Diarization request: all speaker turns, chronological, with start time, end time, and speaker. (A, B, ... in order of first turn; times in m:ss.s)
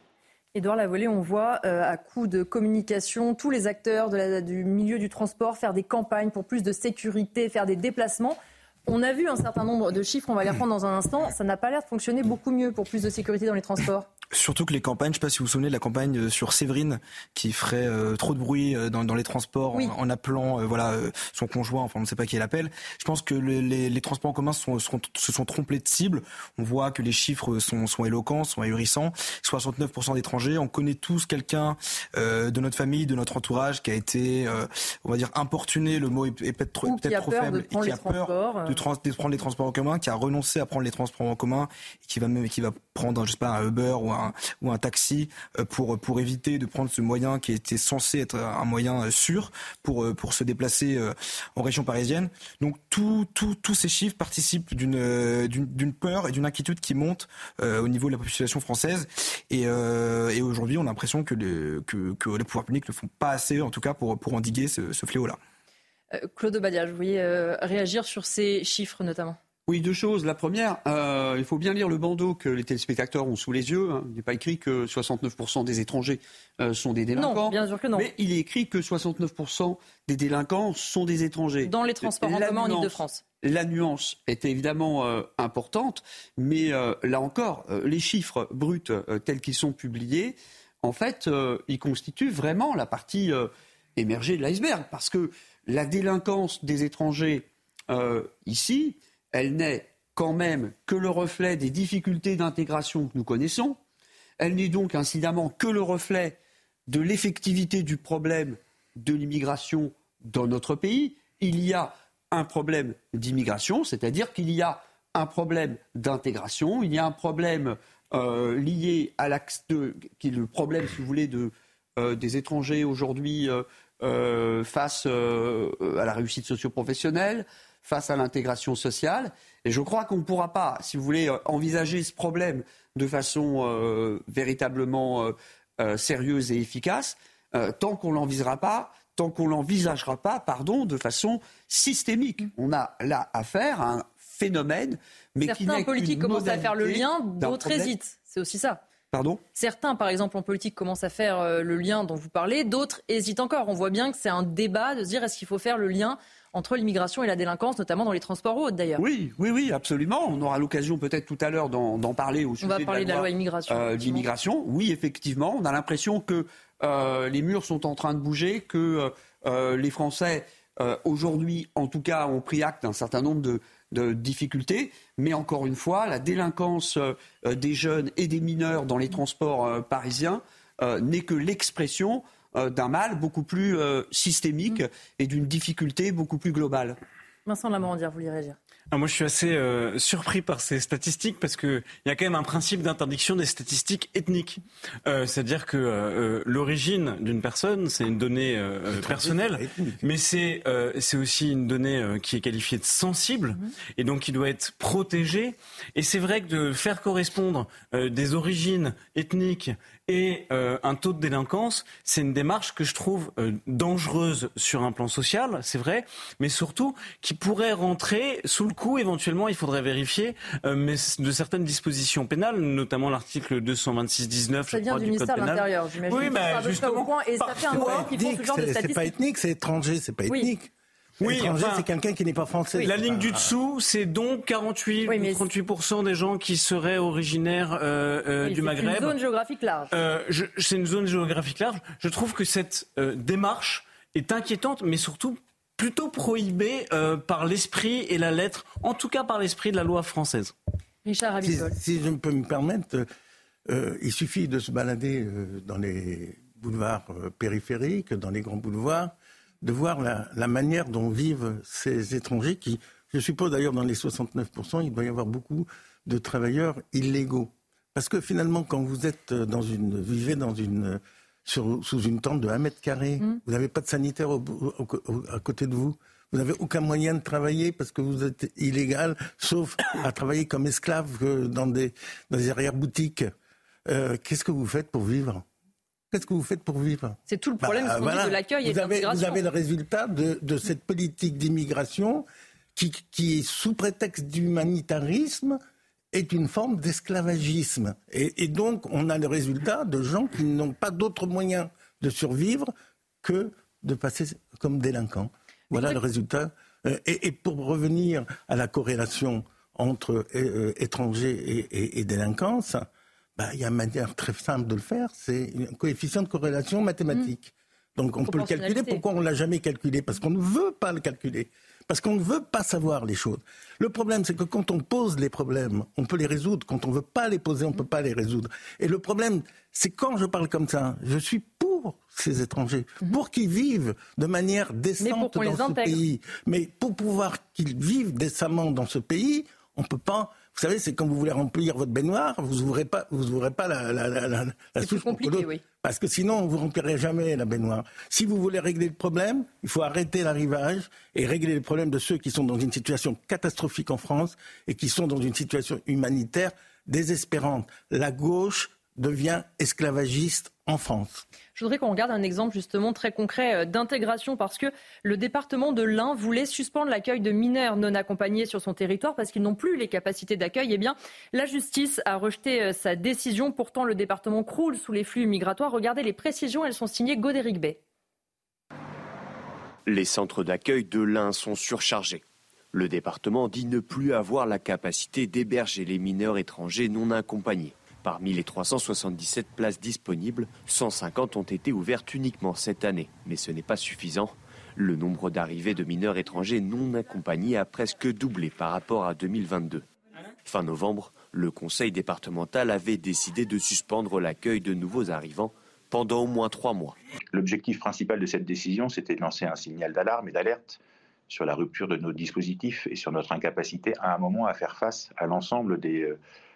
0:00.5-0:14.0 A
0:14.3-1:05.4 B
0:36.8-0:38.8 A
1:06.1-1:09.4 A
1:09.7-1:43.8 C
1:17.1-1:18.1 A
1:21.6-1:23.2 A
1:44.4-2:27.9 C
2:25.4-2:28.8 A
2:29.1-2:29.4 C
2:29.5-2:39.0 A
2:39.0-3:07.0 C
2:42.6-2:44.3 A
3:07.4-3:08.6 A
3:08.9-3:48.1 D
3:18.9-3:20.0 E
3:44.7-3:49.1 A
3:47.7-3:53.5 E
3:51.2-3:51.9 D
3:52.8-3:59.2 D
3:55.1-3:55.4 A
3:58.4-3:59.9 A
3:59.9-4:10.5 D
4:11.0-4:11.7 A
4:11.4-4:13.0 E
4:13.7-4:43.3 E
4:43.9-4:45.4 E
4:46.1-4:55.6 E
4:47.3-4:49.4 A
4:56.1-5:02.7 E
5:03.2-6:01.2 E
5:18.3-5:19.0 A
5:35.0-5:36.0 A
5:44.8-5:45.6 A
6:01.6-6:17.8 A
6:19.8-6:39.8 F
6:40.4-6:47.0 F
6:47.3-6:56.2 G